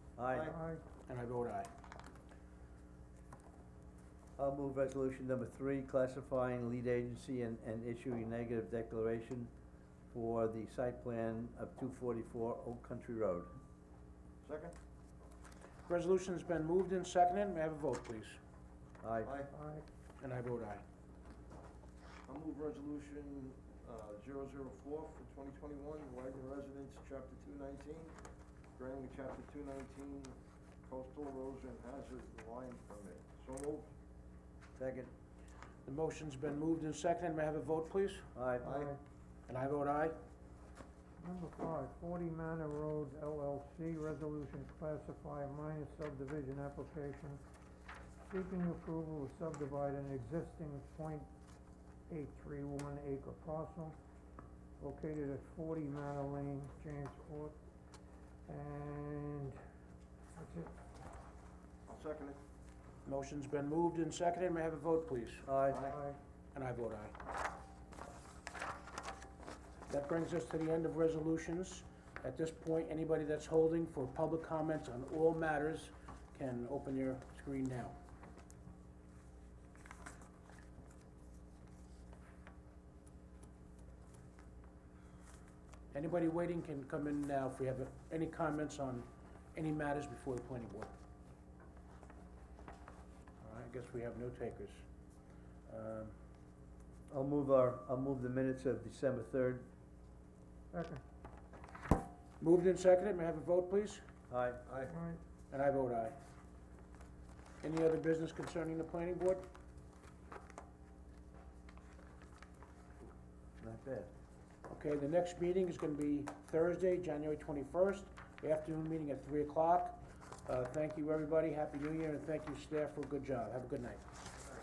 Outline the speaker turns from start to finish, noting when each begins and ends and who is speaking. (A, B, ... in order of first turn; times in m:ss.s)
0:00.2-0:00.5 A
0:00.5-0:00.8 B
0:01.1-0:01.7 C
0:04.4-0:09.5 A
0:10.1-0:13.5 A
0:14.4-0:14.7 D
0:15.8-0:18.4 C
0:19.0-0:19.3 A
0:19.2-0:19.5 D
0:19.5-0:19.8 B
0:20.2-0:20.8 C
0:22.3-0:28.1 D
0:28.8-0:33.9 D
0:34.8-0:35.1 A
0:35.8-0:38.2 C
0:38.3-0:38.7 A
0:38.6-0:38.9 D
0:38.6-0:39.0 B
0:39.5-0:40.2 C
0:41.2-0:47.4 B
0:48.3-0:51.3 B
0:52.1-0:54.0 B
0:54.8-0:57.6 B
0:58.5-0:59.6 B
1:00.4-1:00.7 B
1:01.9-1:02.4 D
1:03.0-1:05.5 C
1:05.4-1:05.9 A
1:05.7-1:06.0 D
1:06.5-1:07.1 C
1:09.9-1:18.0 C
1:25.9-1:30.9 C
1:33.4-1:34.8 C
1:35.7-1:36.1 C
1:37.1-1:39.7 A
1:40.7-1:41.0 B
1:42.4-1:44.0 C
1:44.3-1:44.6 A
1:44.7-1:44.9 D
1:44.9-1:45.2 B
1:45.5-1:46.2 C
1:47.6-1:49.4 C
1:53.6-1:54.1 A
1:54.7-2:04.0 C